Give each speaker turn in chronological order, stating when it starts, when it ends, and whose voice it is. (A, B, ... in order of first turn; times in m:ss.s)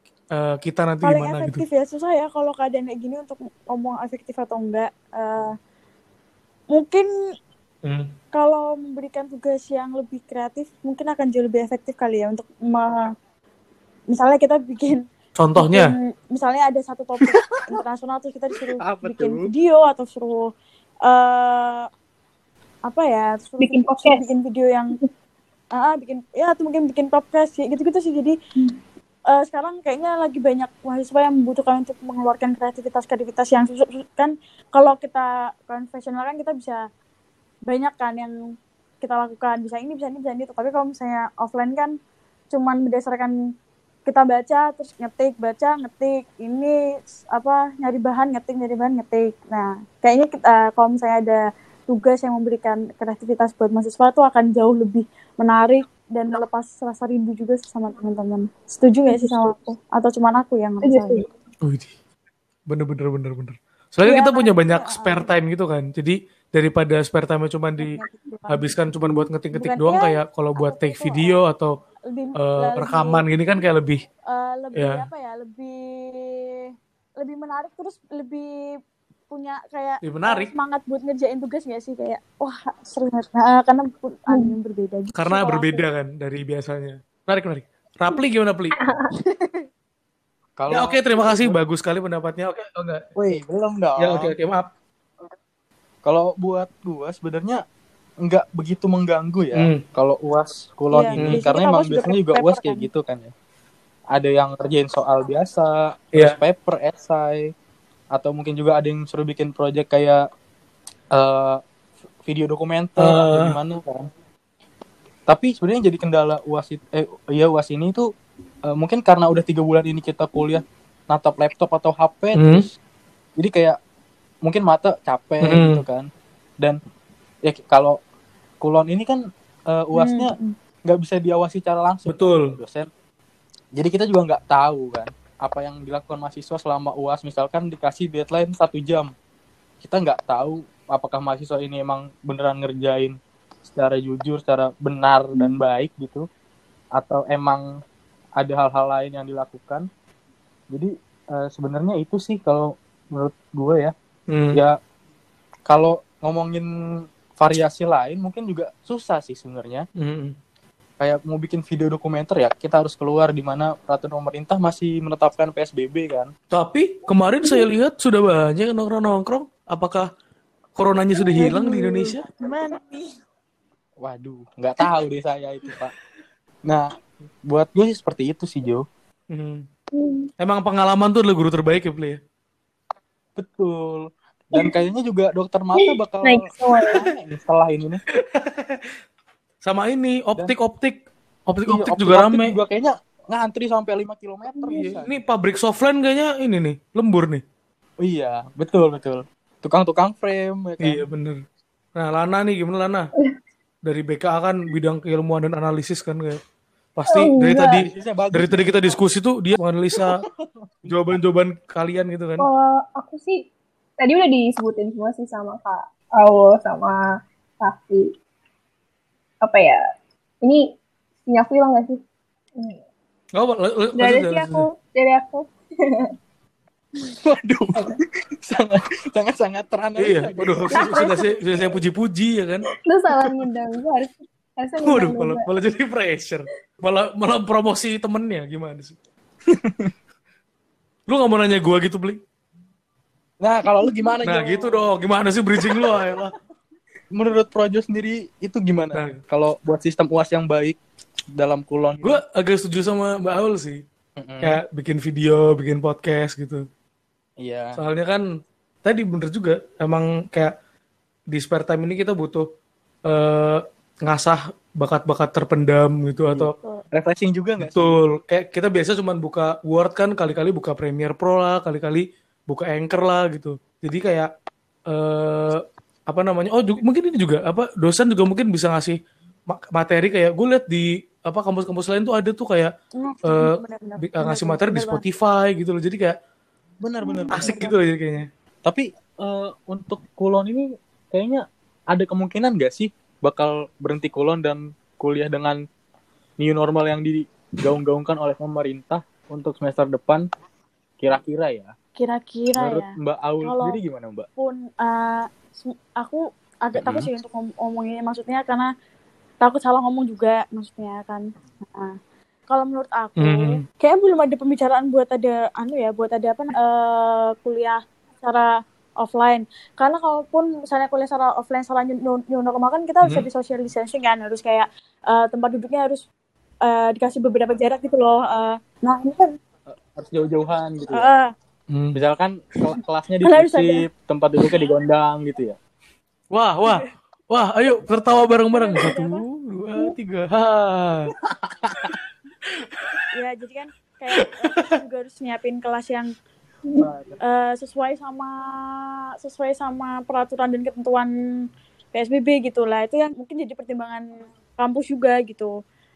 0:00.3-0:01.6 A
0:01.0-0:05.5 B
0:06.7-0:07.1 B
0:07.8-0:08.1 A
0:08.3-0:13.1 B
0:14.1-0:15.0 B
0:15.4-0:15.9 A
0:15.6-0:20.5 B
0:17.3-0:17.6 C
0:18.8-0:19.5 C
0:21.1-0:21.9 B
0:22.9-0:25.0 B
0:23.6-0:24.3 D
0:25.7-0:28.4 B
0:29.3-0:36.8 B
0:37.7-0:38.3 B
0:39.0-0:42.0 B
0:42.5-0:43.3 B
0:44.1-0:46.8 B
0:47.3-1:01.2 B
0:59.1-0:59.5 D
1:00.8-1:01.3 D
1:01.6-1:01.9 A
1:02.7-1:08.0 A
1:04.0-1:05.3 B
1:07.8-1:08.7 B
1:08.5-1:11.7 A
1:09.5-1:11.4 B
1:12.1-1:13.2 B
1:12.4-1:14.0 A
1:14.3-1:18.6 B
1:14.8-1:15.0 A
1:19.3-1:25.8 B
1:20.0-1:20.5 A
1:25.2-1:28.8 A
1:30.6-1:31.6 C
1:30.7-1:33.0 A
1:33.2-1:34.3 C
1:34.0-1:34.7 A
1:36.0-1:37.6 C
1:38.2-1:43.3 C
1:39.6-1:39.8 A
1:40.9-1:42.9 B
1:44.1-1:47.5 C
1:48.2-1:50.2 C
1:51.1-1:51.6 C
1:52.3-1:54.1 C
1:53.0-1:53.6 A
1:55.3-1:58.0 C
1:58.7-2:02.7 C
2:02.4-2:02.6 A
2:03.4-2:03.8 C
2:04.4-2:06.1 C
2:05.4-2:05.8 A
2:07.4-2:08.0 C
2:08.6-2:09.2 C
2:09.7-2:10.4 C
2:10.0-2:10.6 B
2:10.9-2:12.9 C
2:12.1-2:12.5 A
2:13.8-2:19.1 C
2:19.8-2:23.2 C
2:23.7-2:26.2 C
2:27.0-2:27.6 C
2:28.4-2:29.9 C
2:30.7-2:33.9 C
2:34.3-2:34.6 A
2:35.7-2:36.7 C
2:37.4-2:39.8 C
2:40.0-2:40.3 A
2:41.0-2:46.3 C
2:46.5-2:50.1 A
2:50.8-2:52.2 A
2:52.4-2:53.1 B
2:54.0-2:56.0 C
2:57.5-2:58.8 C
2:59.3-2:59.6 A
2:59.9-3:00.3 D
3:00.4-3:02.2 A
3:03.4-3:08.0 C
3:05.8-3:07.1 D
3:08.1-3:08.9 A
3:09.6-3:12.5 A
3:11.7-3:15.1 C
3:14.6-3:15.0 D
3:14.8-3:17.4 A
3:18.0-3:21.0 C
3:20.8-3:21.4 A
3:22.0-3:23.1 A
3:23.9-3:26.4 A
3:27.0-3:30.2 A
3:27.1-3:27.8 D
3:27.9-3:28.9 C
3:30.0-3:30.7 C
3:30.8-3:32.5 A
3:32.4-3:33.4 D
3:34.0-3:37.0 D
3:37.6-3:38.1 D
3:39.4-3:39.8 D
3:41.3-3:42.0 D
3:43.4-3:44.7 A
3:44.0-3:46.1 D
3:47.2-3:51.0 C
3:50.0-3:52.6 A
3:50.7-3:51.4 D
3:52.9-3:55.5 D
3:54.8-3:59.0 A
3:59.5-3:59.9 C
4:01.1-4:02.2 A
4:03.4-4:04.8 C
4:03.8-4:04.1 D
4:04.3-4:06.3 A
4:05.7-4:06.0 C
4:07.1-4:10.8 C
4:08.9-4:09.2 A
4:11.4-4:12.2 C
4:12.0-4:13.8 A
4:14.2-4:14.6 C
4:14.4-4:16.6 A
4:17.4-4:17.8 C
4:17.8-4:18.2 A
4:18.8-4:20.5 A
4:21.3-4:22.4 A
4:23.1-4:26.5 A
4:26.3-4:28.0 C
4:27.6-4:34.3 A
4:34.9-4:39.0 A
4:39.5-4:42.7 A
4:43.0-4:45.0 B
4:43.3-4:46.1 A
4:46.8-4:47.6 C
4:47.3-4:48.3 A
4:47.4-4:47.6 B
4:48.7-4:55.6 C
4:56.4-5:00.2 C
5:01.0-5:01.7 C
5:02.0-5:02.9 B
5:02.6-5:04.3 C
5:03.4-5:03.8 B
5:04.4-5:08.7 B
5:06.8-5:07.1 C
5:09.4-5:12.0 B
5:12.5-5:18.5 B
5:13.2-5:13.6 A
5:19.0-5:26.0 B
5:26.6-5:29.4 B
5:29.7-5:31.1 C
5:30.9-5:31.3 B
5:31.7-5:32.0 A
5:32.0-5:35.6 C
5:33.3-5:33.8 B
5:36.3-5:41.1 A
5:38.5-5:39.2 B
5:41.3-5:42.0 C
5:43.2-5:46.1 B
5:44.2-5:44.6 A
5:46.8-5:47.2 C
5:47.2-5:48.4 B
5:49.2-5:51.1 B
5:51.9-5:55.5 B